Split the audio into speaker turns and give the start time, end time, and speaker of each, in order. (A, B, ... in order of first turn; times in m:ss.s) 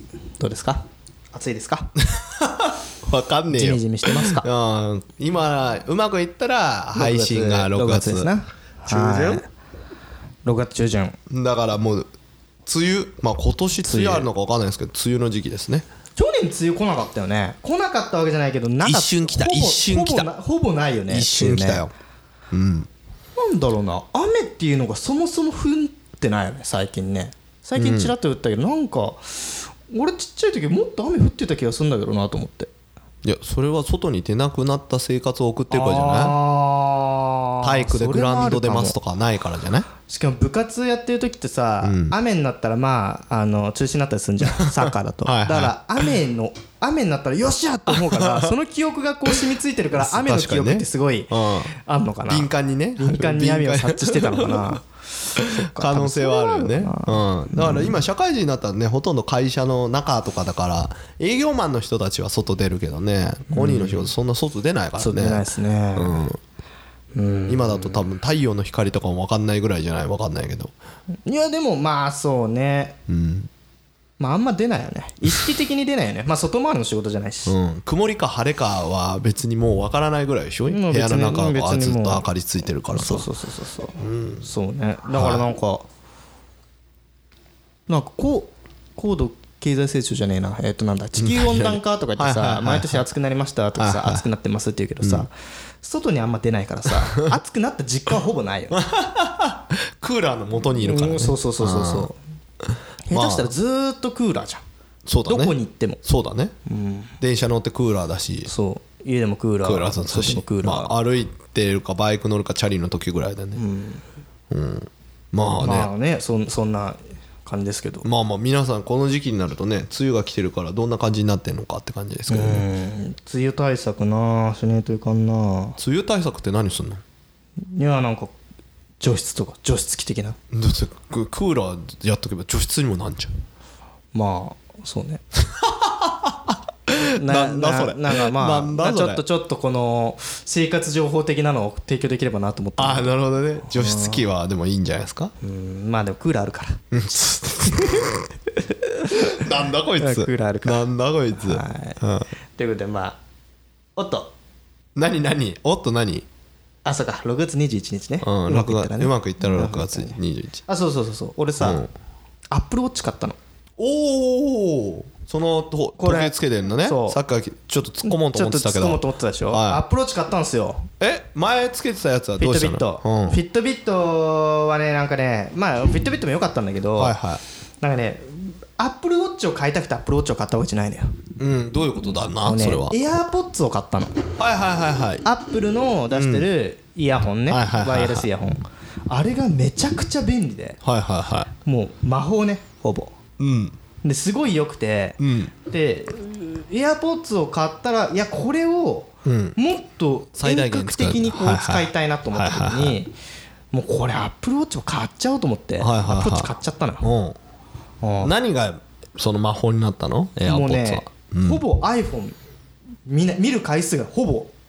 0:00.4-0:01.9 A
0:02.0-0:08.3 B
0:03.5-0:04.5 A
0:06.9-0:09.4 A
0:08.9-0:09.4 B
0:10.4-0:11.2 A
0:11.3-0:12.1 B
0:12.7-0:15.8 B
0:13.8-0:14.3 A
0:16.2-0:21.9 A
0:18.8-0:20.3 B
0:21.1-0:21.9 B
0:22.5-0:22.9 B
0:23.4-0:32.7 A
0:27.8-0:28.1 B
0:33.2-0:36.4 B
0:35.7-0:39.0 A
0:37.6-0:39.9 B
0:40.1-0:58.0 A
0:41.8-0:42.2 B
0:44.4-0:46.0 B
0:47.9-0:48.5 B
0:50.0-0:51.7 B
0:52.3-0:54.8 B
0:55.4-1:06.4 B
1:03.5-1:04.1 A
1:05.0-1:06.2 A
1:07.1-1:08.0 A
1:07.5-1:10.7 B
1:11.2-1:13.0 A
1:13.1-1:13.5 B
1:14.2-1:17.6 A
1:17.5-1:23.3 B
1:20.7-1:22.2 A
1:22.9-1:25.9 A
1:24.0-1:24.5 B
1:25.1-1:25.4 B
1:27.9-1:35.3 A
1:31.2-1:33.0 B
1:33.8-1:34.2 B
1:35.0-1:35.3 B
1:35.8-1:38.8 A
1:38.7-1:42.1 B
1:40.8-1:42.2 A
1:43.1-1:44.6 A
1:43.1-1:43.5 B
1:45.1-1:46.5 B
1:45.3-1:46.0 A
1:46.7-1:47.2 A
1:47.2-1:48.5 B
1:48.5-1:51.0 A
1:49.6-1:53.6 B
1:53.6-1:54.0 A
1:54.5-1:55.9 B
1:55.5-1:58.1 A
1:58.0-2:02.6 B
2:02.3-2:05.8 A
2:05.8-2:07.0 B
2:07.6-2:08.3 A
2:09.0-2:10.4 A
2:10.5-2:13.3 B
2:14.1-2:15.2 A
2:15.4-2:19.2 B
2:17.2-2:23.1 A
2:22.8-2:25.3 B
2:23.7-2:24.2 A
2:25.4-2:26.8 A
2:26.9-2:28.3 B
2:29.1-2:32.3 B
2:30.0-2:32.0 A
2:32.6-2:33.2 A
2:34.0-2:34.3 A
2:35.0-2:36.3 B
2:36.8-2:41.8 A
2:38.2-2:40.6 B
2:41.6-2:41.9 B
2:42.5-2:43.4 A
2:43.8-2:49.8 B
2:46.0-2:47.2 A
2:48.0-2:50.9 A
2:51.0-2:53.4 B
2:52.4-2:57.2 A
2:57.0-2:57.4 B
2:57.8-3:01.1 A
3:01.4-3:03.0 B
3:02.4-3:04.2 A
3:04.4-3:05.3 B
3:05.2-3:10.8 A
3:06.1-3:06.5 B
3:07.5-3:08.3 B
3:10.8-3:11.5 B
3:11.6-3:13.1 A
3:13.4-3:13.8 B
3:14.0-3:23.1 A
3:15.2-3:15.5 B
3:19.2-3:19.6 B
3:20.4-3:23.0 B
3:23.7-3:27.1 A
3:25.8-3:27.4 B
3:28.0-3:28.3 A
3:28.2-3:31.6 B
3:30.4-3:32.4 A
3:33.1-3:34.5 A